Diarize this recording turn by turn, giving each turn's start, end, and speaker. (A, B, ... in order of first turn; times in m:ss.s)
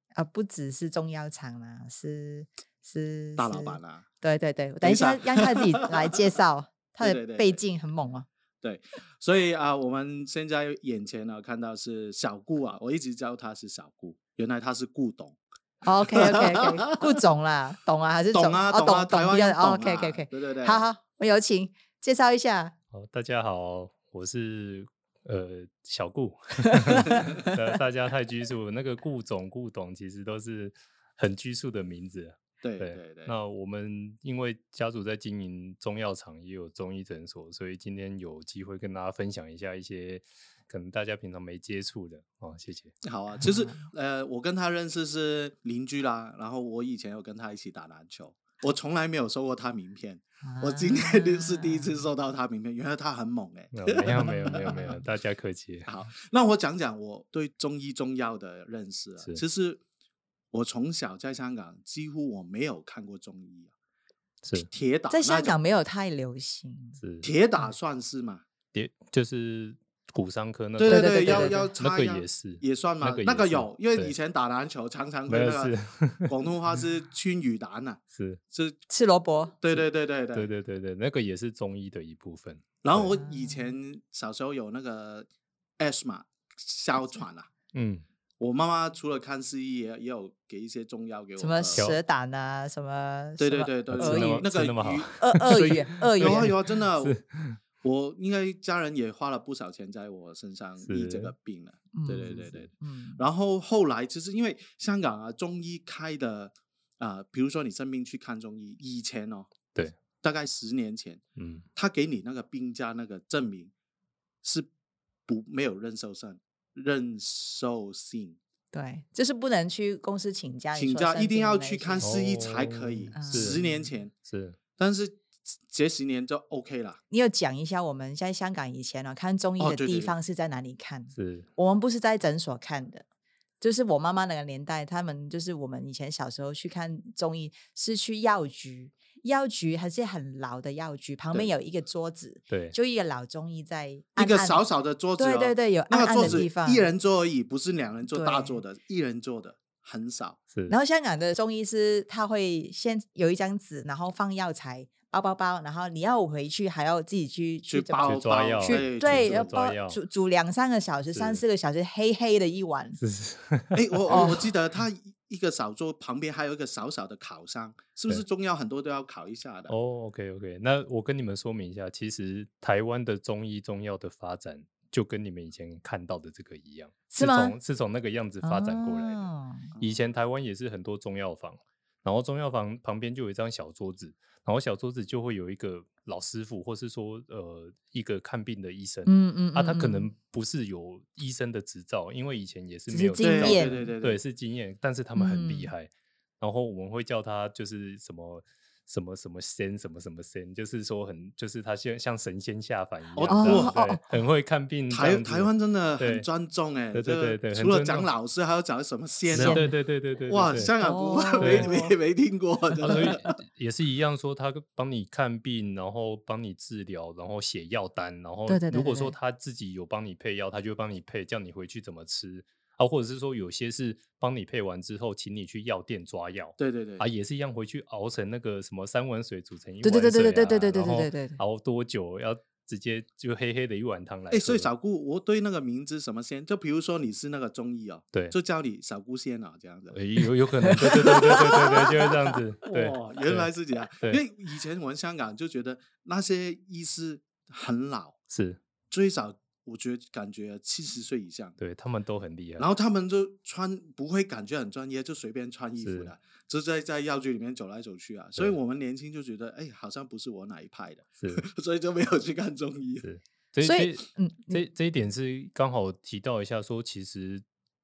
0:00.2-0:08.3 A
0:03.4-0:04.0 B
0:04.8-0:06.1 B
0:07.0-0:07.6 B
0:08.6-0:15.4 B
0:15.8-0:22.7 A
0:16.1-0:17.1 B
0:18.3-0:20.8 B
0:22.9-0:43.0 C
0:26.6-0:27.6 A
0:32.6-0:33.3 B
0:43.0-0:55.0 B
0:43.4-0:43.8 A
0:50.4-0:52.0 A
0:53.7-0:55.9 C
0:55.9-0:59.8 B
1:00.5-1:03.7 B
1:04.4-1:04.7 C
1:04.7-1:05.6 B
1:05.1-1:07.0 A
1:07.0-1:07.3 C
1:07.2-1:08.4 B
1:08.7-1:14.1 C
1:10.8-1:15.7 B
1:10.9-1:11.7 A
1:15.3-1:16.3 C
1:16.3-1:18.0 B
1:18.1-1:18.4 C
1:18.5-1:18.8 B
1:18.9-1:19.5 A
1:19.6-1:20.5 B
1:19.7-1:23.1 C
1:22.8-1:25.3 B
1:23.2-1:23.7 A
1:25.8-1:27.5 B
1:27.7-1:28.0 C
1:28.4-1:31.9 B
1:31.4-1:34.5 A
1:33.4-1:37.2 B
1:33.9-1:37.6 C
1:35.2-1:36.6 A
1:37.8-1:49.5 B
1:40.8-1:41.3 C
1:41.9-1:43.2 A
1:50.2-1:51.2 B
1:51.4-1:51.6 C
1:51.7-1:53.7 B
1:54.4-1:54.7 B
1:55.3-1:58.4 B
1:58.7-2:02.2 A
2:00.7-2:04.1 B
2:02.0-2:03.6 C
2:03.1-2:03.9 A
2:04.2-2:04.6 C
2:04.8-2:07.0 B
2:07.1-2:13.0 A
2:09.6-2:10.1 B
2:11.1-2:11.5 C
2:13.6-2:24.6 A
2:22.5-2:22.8 C
2:24.2-2:30.4 B
2:25.2-2:26.9 A
2:28.1-2:28.6 A
2:30.7-2:43.0 A
2:37.7-2:39.5 B
2:38.0-2:40.0 C
2:41.1-2:41.4 C
2:43.0-2:44.3 C
2:43.7-2:49.7 B
2:44.1-2:44.5 A
2:49.7-2:59.2 C
2:57.1-2:57.6 A
2:58.4-2:59.7 A
2:59.7-3:00.1 B
2:59.8-3:26.3 C
3:09.0-3:10.1 A
3:12.9-3:13.9 A
3:13.2-3:14.2 B
3:15.2-3:15.7 A
3:23.1-3:23.8 B
3:23.3-3:24.2 A
3:24.9-3:29.7 B
3:26.9-3:28.1 C
3:29.3-3:30.7 C
3:29.3-3:29.7 A
3:30.3-3:33.3 B
3:30.8-3:31.9 A
3:31.4-3:31.7 C
3:32.8-3:54.7 C
3:32.9-3:33.1 A
3:38.5-3:39.1 A
3:46.6-3:47.0 B
3:49.8-3:51.4 A
3:54.3-4:00.0 B
3:59.9-4:03.5 C
4:00.6-4:02.1 A
4:00.8-4:02.1 B
4:02.6-4:08.2 B
4:08.3-4:08.6 C
4:08.9-4:11.6 B
4:11.6-4:12.7 C
4:12.6-4:23.0 B
4:15.8-4:16.1 C
4:23.0-4:27.4 C
4:23.6-4:24.6 A